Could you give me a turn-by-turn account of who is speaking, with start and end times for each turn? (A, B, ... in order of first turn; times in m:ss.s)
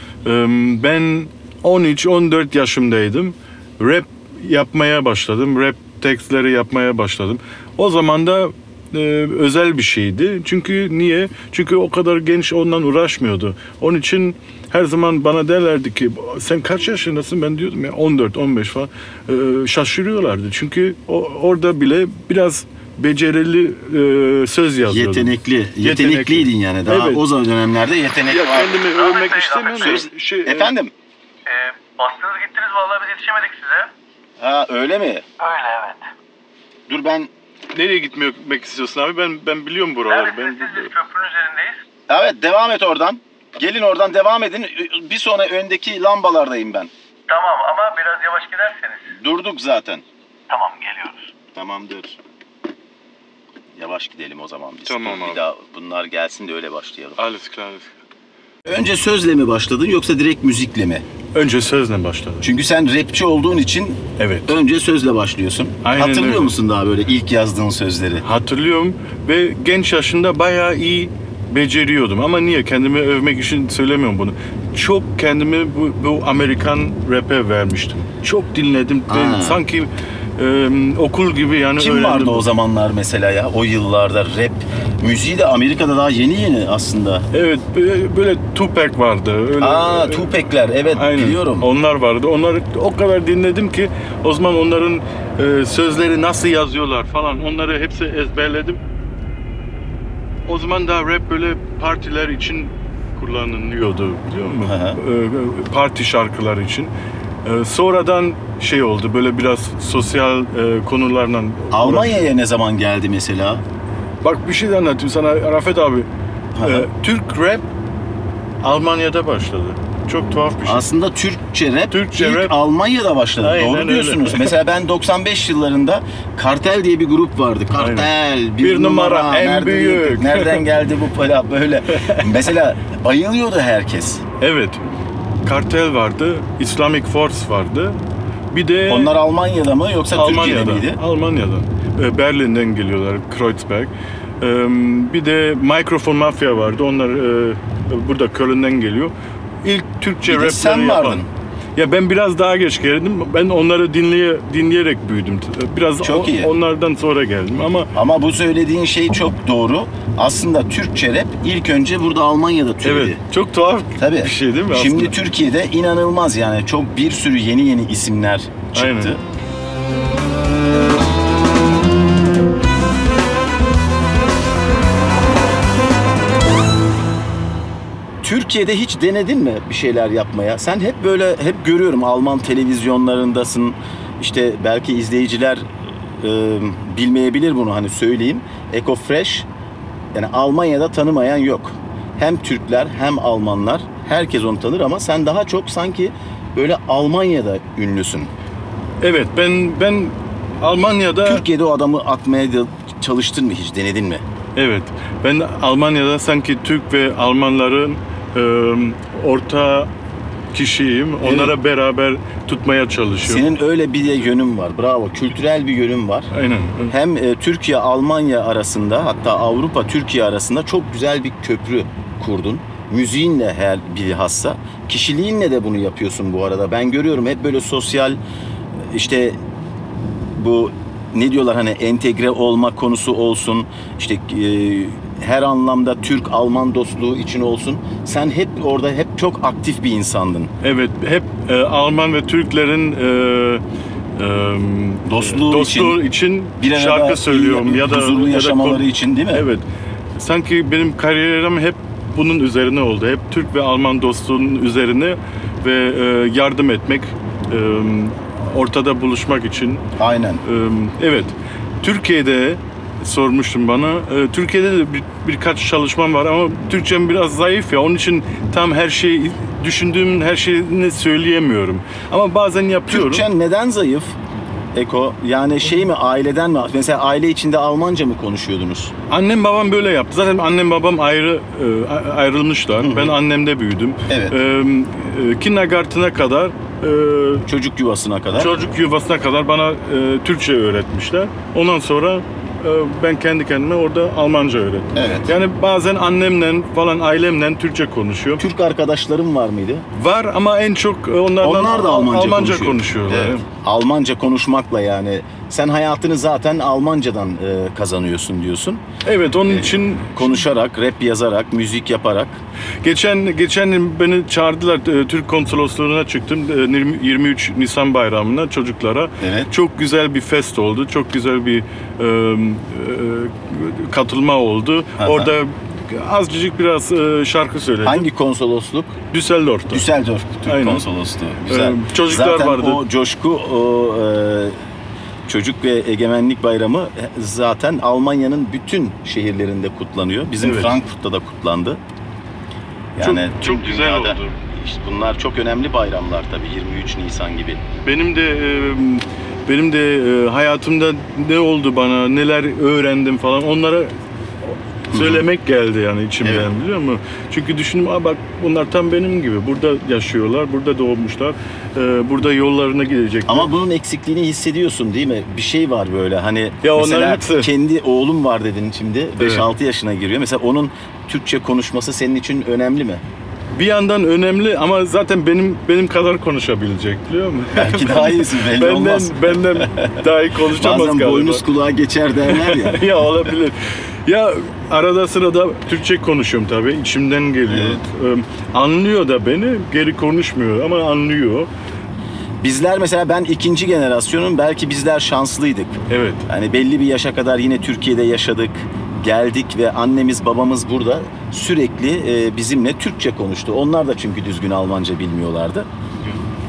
0:00.2-0:27.2 A
0:24.9-0:28.8 B
0:28.3-0:30.8 A
0:28.9-0:30.0 C
0:29.7-0:30.9 B
0:31.5-0:33.9 C
0:34.4-0:35.3 B
0:35.4-0:36.0 C
0:36.9-0:37.3 B
0:37.7-0:40.9 A
0:40.1-0:41.8 C
0:42.1-0:46.9 B
0:47.3-0:49.1 C
0:49.1-0:50.0 B
0:50.5-0:51.2 C
0:51.4-0:52.2 B
0:53.8-0:57.2 B
0:54.9-0:55.4 A
0:57.2-0:57.9 A
0:58.7-1:01.0 B
1:01.3-1:02.5 A
1:02.4-1:08.2 B
1:04.2-1:04.6 A
1:05.8-1:06.6 A
1:08.2-1:22.5 A
1:19.1-1:19.6 B
1:21.8-1:27.3 B
1:27.3-1:30.4 A
1:29.6-1:31.7 B
1:31.0-1:38.8 A
1:40.5-1:46.9 A
1:44.6-1:45.0 B
1:47.4-1:52.3 A
1:51.7-1:53.6 B
1:54.2-1:56.1 A
1:56.6-1:56.9 B
1:56.6-1:57.7 A
1:58.6-2:00.9 A
2:00.6-2:14.2 B
2:01.9-2:02.6 A
2:03.4-2:04.5 A
2:07.8-2:10.6 A
2:11.9-2:12.3 A
2:14.4-2:14.8 A
2:15.4-2:18.0 A
2:18.5-2:19.1 A
2:18.9-2:21.0 B
2:20.1-2:29.1 A
2:29.6-2:31.2 A
2:30.2-2:31.3 B
2:31.8-2:37.9 A
2:36.0-2:36.5 B
2:37.9-2:43.2 B
2:42.8-2:45.2 A
2:44.0-2:49.2 B
2:48.7-2:49.1 A
2:58.2-3:09.5 B
3:10.1-3:18.3 B
3:19.0-3:21.4 A
3:21.2-3:24.2 B
3:24.6-3:29.9 A
3:30.5-3:33.5 A
3:31.2-3:31.5 B
3:33.2-3:36.3 B
3:36.3-3:37.0 A
3:36.9-3:48.2 B
3:48.9-3:49.4 B
3:50.3-4:00.5 B
4:00.6-4:03.6 A
4:04.2-4:09.6 A
4:05.1-4:06.0 B
4:06.6-4:09.5 B
4:10.2-4:19.8 A
4:20.0-4:20.4 B
4:20.4-4:33.3 A
4:32.9-4:34.2 B
4:34.7-4:38.9 B
4:39.1-4:47.5 A
4:42.8-4:43.2 B
4:44.1-4:44.4 B
4:47.5-4:48.5 B
4:48.4-4:58.4 A
4:54.9-4:55.3 B
4:58.4-4:59.9 B
5:00.0-5:03.4 A
5:01.4-5:08.8 B
5:09.0-5:10.4 A
5:09.5-5:12.4 B
5:12.8-5:28.1 A
5:19.2-5:19.5 B
5:25.0-5:25.3 B
5:27.8-5:29.0 B
5:29.1-5:29.9 A
5:29.7-5:34.6 B
5:30.4-5:30.8 A
5:31.5-5:32.8 A
5:35.3-5:41.8 B
5:40.4-5:40.8 A
5:43.0-5:47.6 B
5:43.0-5:44.4 A
5:47.8-5:53.9 A
5:54.4-6:03.5 A
5:54.9-5:55.3 B
5:56.2-5:56.5 B
6:03.3-6:13.0 B
6:06.6-6:07.5 A
6:09.2-6:09.5 A
6:13.6-6:21.4 A
6:17.5-6:22.9 B
6:22.3-6:31.5 A
6:27.5-6:27.8 B
6:32.4-6:45.7 B
6:35.9-6:36.2 A